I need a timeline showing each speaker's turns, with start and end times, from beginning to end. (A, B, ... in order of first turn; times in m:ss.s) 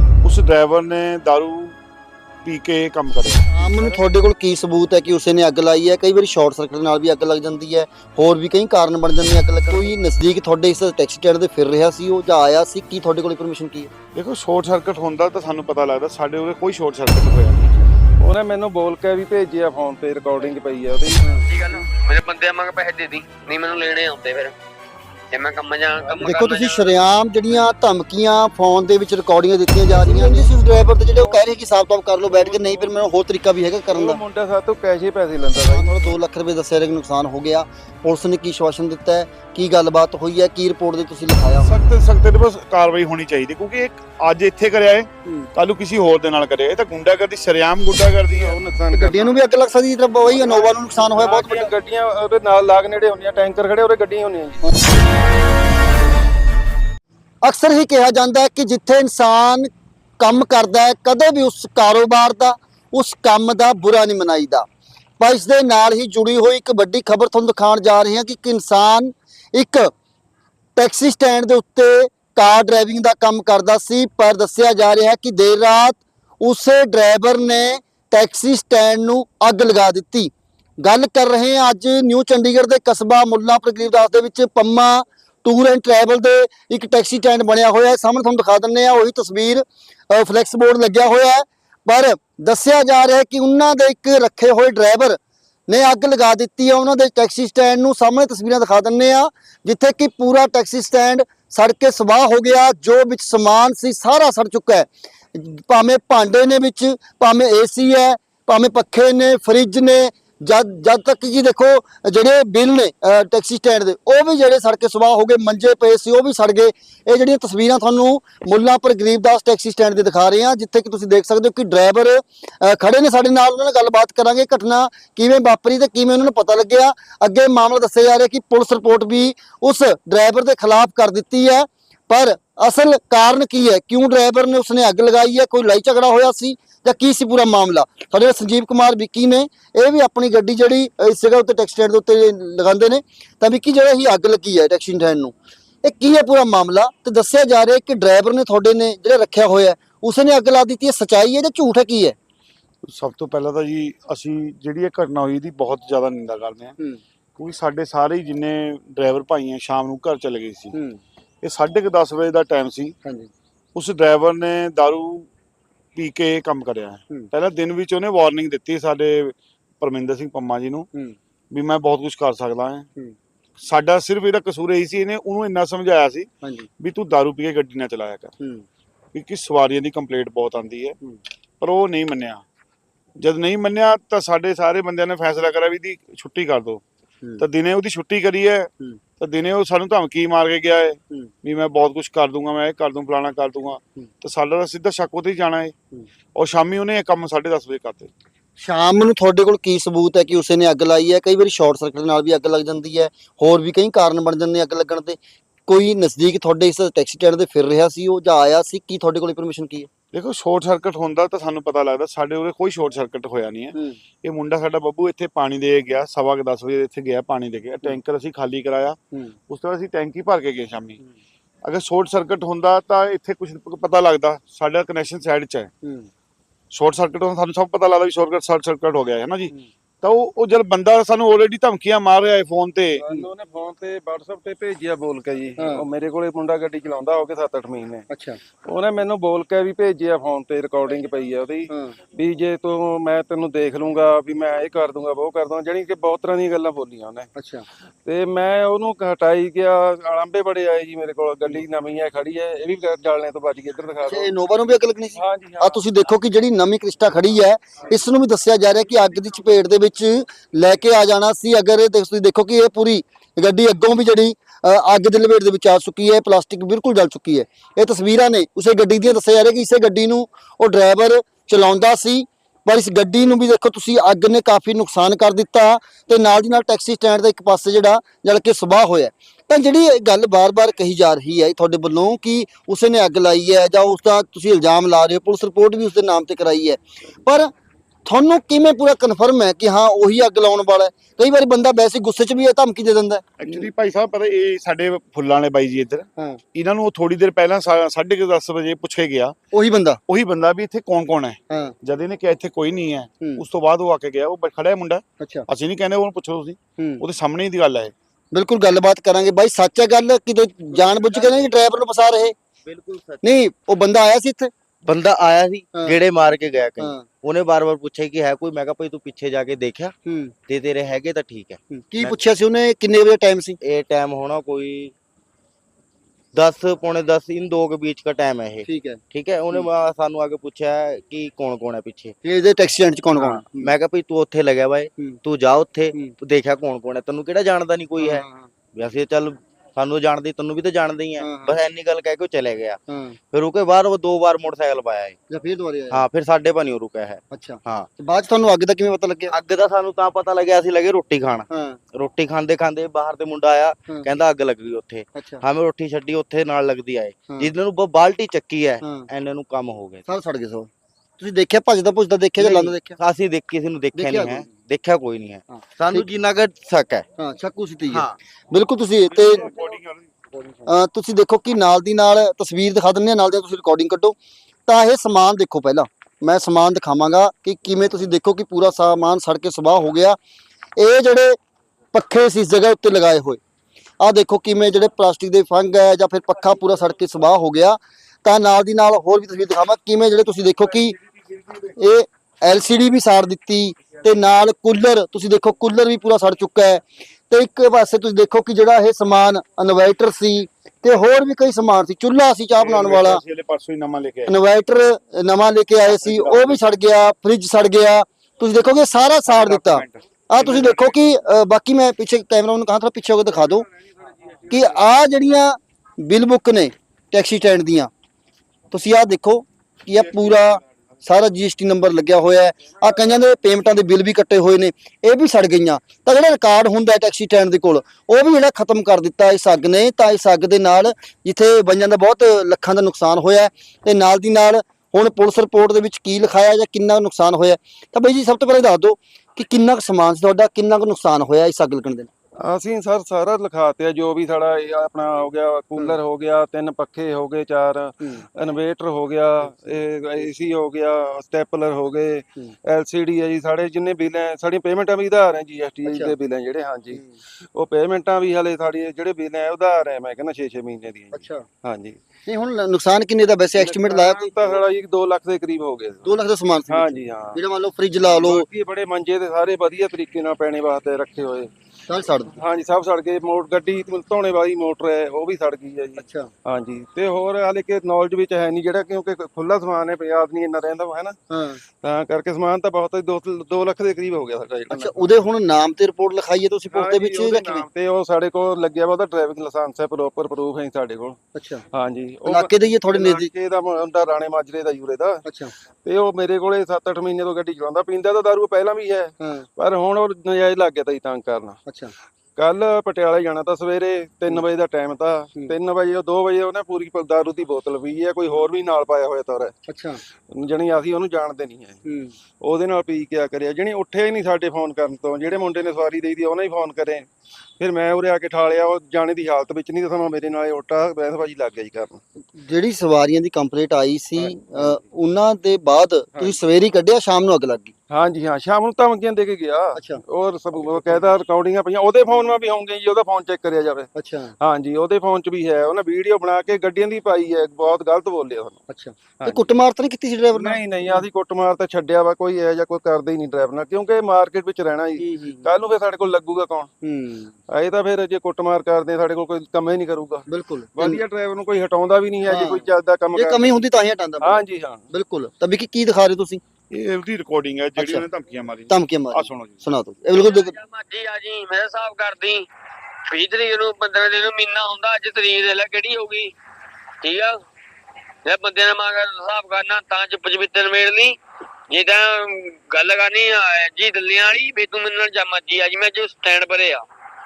0:00.2-0:01.8 A
0:02.4-0:04.0 A
0:03.5-0:13.9 B
0:14.1-0:17.8 A
0:18.2-0:21.9 C
0:21.2-0:21.5 B
0:21.4-0:24.5 D
0:25.3-0:26.8 D
0:26.0-0:26.3 C
0:26.2-0:34.2 B
0:30.0-0:31.4 C
0:32.3-0:33.0 C
0:33.9-0:36.2 C
0:35.7-0:41.8 B
0:41.6-0:48.6 A
0:48.3-0:49.4 C
0:48.9-0:51.7 B
0:50.2-0:54.7 C
0:57.4-0:59.7 B
1:00.2-1:04.6 B
1:05.2-1:09.9 B
1:10.8-2:32.2 B
2:32.9-2:36.7 A
2:37.4-2:40.7 A
2:40.7-2:41.0 B
2:41.4-2:42.9 A
2:43.0-2:43.3 B
2:43.7-2:45.3 A
2:46.0-2:50.9 A
2:51.5-2:52.9 A
2:53.6-2:56.3 A
2:56.4-2:56.7 B
2:56.8-2:58.3 A
2:58.4-2:58.6 B
2:59.1-3:01.0 A
3:01.6-3:02.4 A
3:03.2-3:06.8 A
3:07.4-3:15.7 A
3:16.4-3:18.1 A
3:18.6-3:29.9 B
3:30.1-3:39.0 A
3:39.5-3:41.0 A
3:41.6-3:45.7 A
3:45.8-3:46.1 B
3:46.7-3:53.0 A
3:52.9-3:58.0 C
3:55.6-3:55.8 B
3:58.1-3:58.4 B
3:58.6-4:07.3 C
4:01.7-4:01.9 B
4:07.4-4:07.6 B
4:08.0-4:14.3 C
4:14.0-4:47.5 B
4:15.1-4:15.8 C
4:48.0-4:53.7 B
4:53.4-4:59.4 A
4:59.5-5:00.0 B
5:00.1-5:07.9 A
5:01.5-5:01.8 B
5:05.2-5:05.4 B
5:06.8-5:07.0 B
5:08.3-5:12.3 B
5:10.7-5:11.5 E
5:12.6-5:13.2 E
5:13.2-5:14.5 B
5:14.8-5:19.9 E
5:16.8-5:17.0 B
5:20.0-5:20.3 B
5:20.5-5:22.2 E
5:21.7-5:23.6 B
5:23.6-5:24.9 E
5:26.3-5:32.2 E
5:28.6-5:29.7 B
5:32.2-5:33.7 B
5:33.1-5:42.8 E
5:38.0-5:38.5 B
5:41.2-5:41.6 B
5:42.9-5:43.2 B
5:43.3-5:45.2 E
5:45.3-5:46.0 B
5:45.9-5:47.9 E
5:47.3-5:49.3 B
5:49.3-6:00.0 E
5:51.5-5:51.8 B
5:55.1-5:55.4 B
5:58.8-5:59.1 B
6:00.0-6:03.0 B
6:02.4-6:07.0 E
6:03.9-6:04.5 B
6:05.5-6:06.1 B
6:07.2-6:09.6 B
6:07.9-6:08.2 E
6:09.1-6:10.4 A
6:10.6-6:14.2 B
6:14.7-6:20.2 B
6:20.8-6:21.4 B
6:21.9-6:23.4 B
6:24.0-6:31.0 B
6:31.6-6:43.2 B
6:42.6-6:44.3 A
6:44.2-6:53.7 B
6:45.9-6:46.6 A
6:49.3-6:51.0 A
6:53.8-6:54.9 C
6:54.5-6:57.9 B
6:58.7-7:22.1 B
6:59.9-7:00.3 A
7:22.4-7:37.0 C
7:28.0-7:28.2 B
7:35.8-7:36.1 B
7:36.9-7:37.2 B
7:37.5-7:42.0 C
7:41.1-7:41.4 B
7:42.2-7:44.6 B
7:43.5-7:46.1 C
7:46.0-7:48.5 B
7:46.7-7:47.4 C
7:48.0-7:51.5 C
7:51.8-7:52.4 B
7:52.3-8:01.2 C
7:56.0-7:56.3 B
8:01.3-8:01.6 B
8:01.8-8:05.1 C
8:04.7-8:07.6 B
8:06.7-8:11.2 C
8:11.3-8:11.6 B
8:11.7-8:15.2 C
8:12.2-8:13.3 B
8:15.2-8:15.5 B
8:15.8-8:21.6 C
8:19.2-8:19.5 B
8:21.6-8:21.9 B
8:22.4-8:29.5 C
8:29.7-8:30.0 B
8:30.3-8:31.8 C
8:31.8-8:32.1 B
8:32.4-8:37.1 C
8:37.6-8:42.0 C
8:42.4-8:47.7 B
8:44.2-8:44.8 C
8:47.9-8:53.9 C
8:49.7-8:50.0 B
8:50.5-8:51.1 B
8:54.0-8:54.3 B
8:54.4-8:58.6 C
8:58.7-9:01.0 B
8:59.2-8:59.5 C
9:00.3-9:06.7 C
9:05.0-9:05.5 B
9:06.8-9:07.4 B
9:07.5-9:13.6 C
9:10.3-9:11.0 B
9:12.2-9:16.4 B
9:14.2-9:14.8 C
9:16.7-9:19.7 A
9:17.8-9:18.0 B
9:18.7-9:20.6 B
9:20.1-9:22.5 D
9:23.1-9:26.3 D
9:27.0-9:27.4 D
9:28.2-9:31.2 D
9:31.7-9:36.8 D